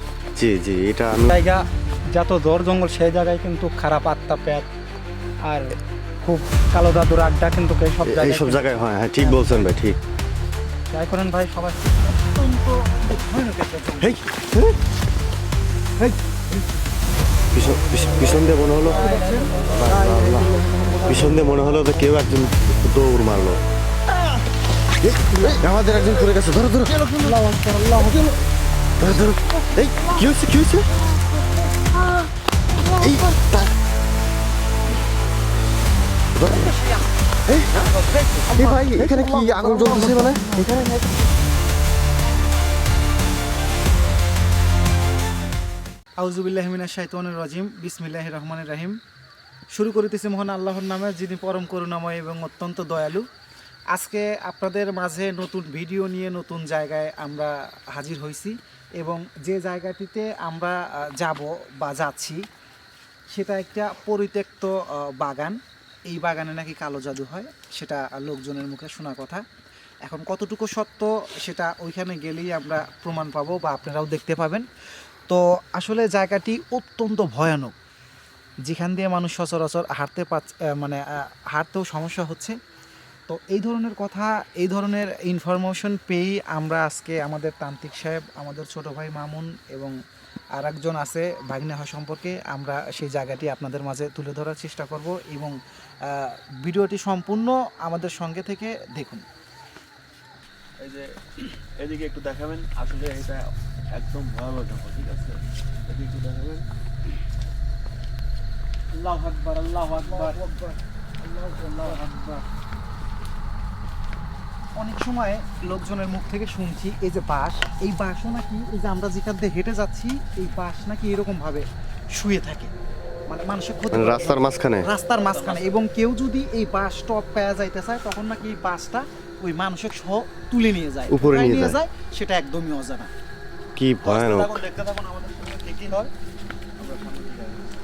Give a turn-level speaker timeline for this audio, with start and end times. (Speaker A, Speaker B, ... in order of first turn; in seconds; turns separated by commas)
Speaker A: 0.3-1.4, Speaker B: 1.3-4.7, Speaker B: 5.5-9.7, Speaker A: 8.0-10.0, Speaker B: 10.9-11.9, Speaker C: 12.1-14.1, Speaker A: 14.0-14.8, Speaker A: 17.5-19.1, Speaker C: 18.0-21.4, Speaker B: 18.8-20.0, Speaker A: 19.7-20.5, Speaker A: 21.1-23.6, Speaker A: 25.0-27.0, Speaker C: 26.9-27.4, Speaker B: 27.2-28.2, Speaker C: 27.9-28.3, Speaker A: 29.0-30.9, Speaker A: 33.0-33.7, Speaker A: 36.4-36.7, Speaker B: 36.5-37.0, Speaker D: 37.7-41.1, Speaker A: 38.5-40.4, Speaker C: 46.2-49.0, Speaker C: 49.7-53.3, Speaker C: 53.9-62.4, Speaker C: 63.3-69.4, Speaker C: 70.0-74.7, Speaker C: 75.3-77.7, Speaker C: 78.6-82.5, Speaker C: 83.3-89.9, Speaker C: 90.5-99.2, Speaker D: 100.8-106.6, Speaker D: 108.9-110.3, Speaker C: 110.0-112.0, Speaker B: 111.8-112.4, Speaker C: 114.8-122.7, Speaker C: 123.3-133.1, Speaker A: 123.9-124.9, Speaker D: 125.1-125.8, Speaker A: 131.1-131.8, Speaker A: 133.8-134.6, Speaker D: 134.0-136.1, Speaker D: 136.8-137.6